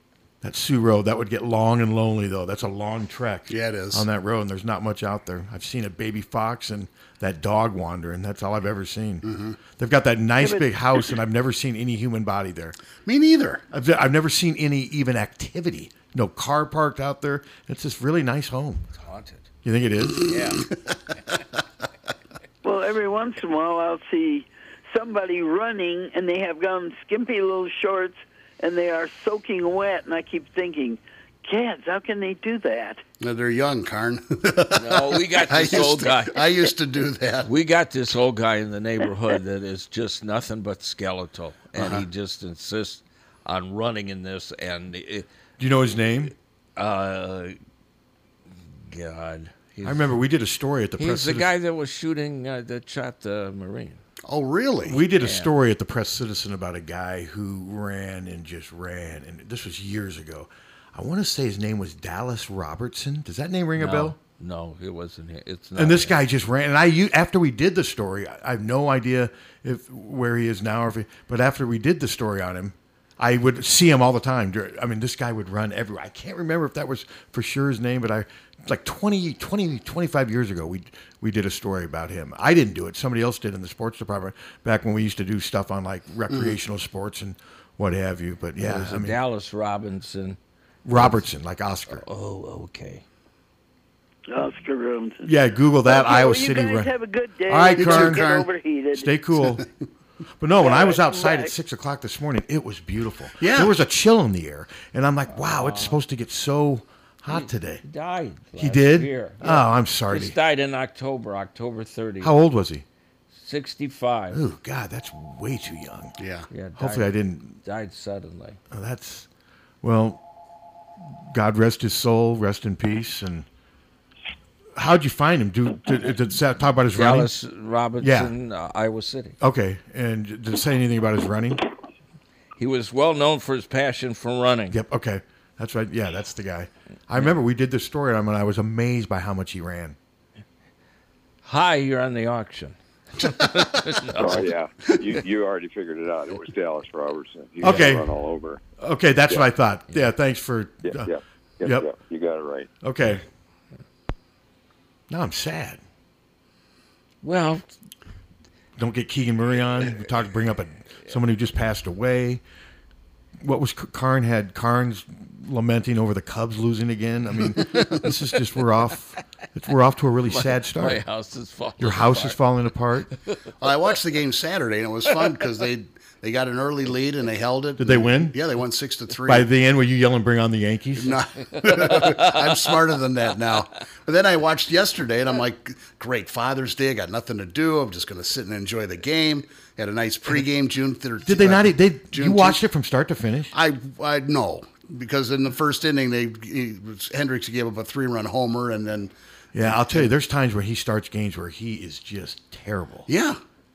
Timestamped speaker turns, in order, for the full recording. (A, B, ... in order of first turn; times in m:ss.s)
0:00.4-0:09.2 A
0:03.5-0:04.0 B
0:09.2-0:09.6 B
0:09.8-0:12.8 A
0:13.0-0:13.6 B
0:13.7-0:18.8 A
0:19.0-0:19.5 C
0:19.6-0:20.3 A
0:20.3-0:20.6 C
0:22.6-0:33.0 D
0:33.2-0:37.5 B
0:34.7-0:36.5 C
0:37.4-0:45.3 C
0:41.8-0:42.0 B
0:45.6-0:46.3 A
0:46.8-0:47.6 C
0:48.9-0:50.1 C
0:49.8-0:51.5 A
0:51.0-0:54.0 C
0:54.3-0:55.0 B
0:54.9-1:04.2 A
0:55.2-0:55.5 C
1:03.8-1:06.2 C
1:05.8-1:29.2 A
1:26.3-1:26.6 B
1:28.6-1:30.4 C
1:30.8-1:32.0 A
1:30.9-1:31.2 C
1:31.9-1:33.0 C
1:34.3-1:35.3 D
1:35.2-1:36.9 A
1:35.8-1:39.1 D
1:37.5-1:38.2 A
1:37.8-1:38.5 B
1:38.9-1:39.6 A
1:40.4-1:47.8 A
1:40.6-1:41.5 D
1:43.4-1:43.7 B
1:45.3-1:46.0 C
1:47.3-1:52.4 C
1:48.6-1:50.4 A
1:52.2-1:52.8 A
1:53.3-1:54.4 C
1:54.3-1:56.2 A
1:56.2-1:56.5 B
1:56.5-1:58.6 C
1:56.8-1:57.6 A
1:58.7-1:59.3 A
1:59.8-2:00.2 A
2:01.3-2:03.5 A
2:04.8-2:07.3 A
2:06.9-2:09.4 C
2:08.0-2:08.3 A
2:09.4-2:11.6 A
2:12.6-2:14.8 C
2:14.7-2:20.0 A
2:21.4-2:24.5 C
2:24.2-2:28.6 E
2:27.6-2:28.1 A
2:28.8-2:31.1 A
2:30.8-2:32.7 E
2:31.6-2:31.9 A
2:32.8-2:33.2 A
2:35.1-2:35.8 A
2:37.2-2:37.7 C
2:38.8-2:42.4 A
2:43.4-2:51.0 A
2:47.6-2:47.9 B
2:50.3-2:52.4 C
2:51.8-2:53.1 A
2:53.6-2:59.5 B
2:57.8-2:58.4 A
2:59.3-3:01.2 A
3:01.0-3:12.6 B
3:01.6-3:02.4 C
3:11.2-3:13.5 A
3:13.5-3:20.1 B
3:19.5-3:23.1 A
3:23.1-3:23.4 B